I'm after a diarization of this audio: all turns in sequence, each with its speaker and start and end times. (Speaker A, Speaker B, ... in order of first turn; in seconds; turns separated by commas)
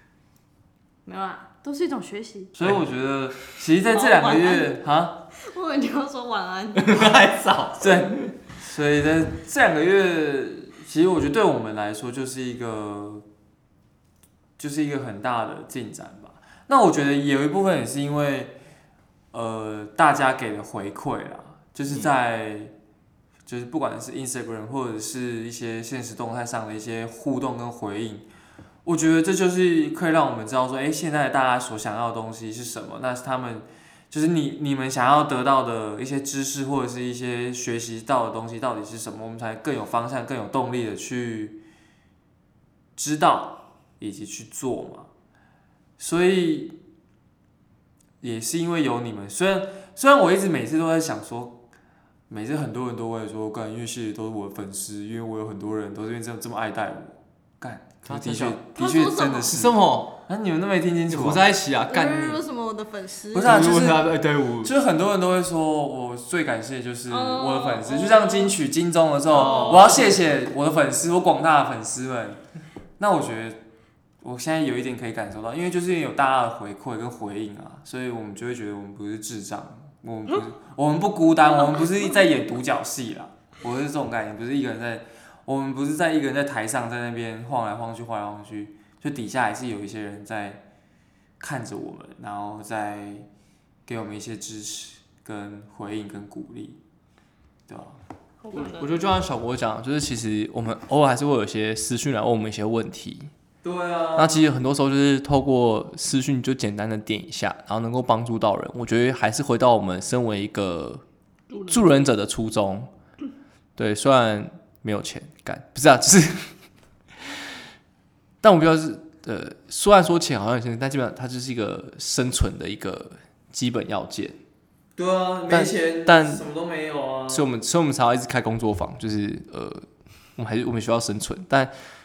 Speaker A: 1.1-2.5, Speaker B: 2.5-5.2, Speaker A: 3.9-4.8, Speaker A: 5.4-7.2, Speaker C: 6.8-8.3, Speaker B: 7.8-13.2, Speaker B: 14.6-18.6, Speaker B: 19.3-22.7, Speaker B: 23.4-28.3, Speaker B: 28.8-41.6, Speaker B: 43.0-45.1, Speaker B: 46.0-46.8, Speaker B: 48.2-51.6, Speaker B: 52.3-61.5, Speaker C: 58.0-58.6, Speaker A: 58.8-59.5, Speaker C: 59.5-60.2, Speaker C: 61.1-62.4, Speaker A: 61.9-63.7, Speaker B: 63.3-72.4, Speaker C: 63.4-64.7, Speaker A: 67.1-68.6, Speaker C: 69.4-70.0, Speaker A: 69.5-69.8, Speaker B: 73.0-73.6, Speaker B: 74.2-90.6, Speaker B: 91.4-93.3, Speaker B: 93.8-96.8, Speaker B: 97.7-98.0, Speaker A: 98.4-98.9, Speaker C: 98.5-103.3, Speaker B: 103.6-104.5, Speaker C: 104.2-111.0, Speaker C: 111.6-112.9, Speaker C: 113.8-116.5, Speaker C: 118.4-124.4, Speaker B: 125.0-127.4, Speaker C: 125.5-126.4, Speaker C: 127.3-131.7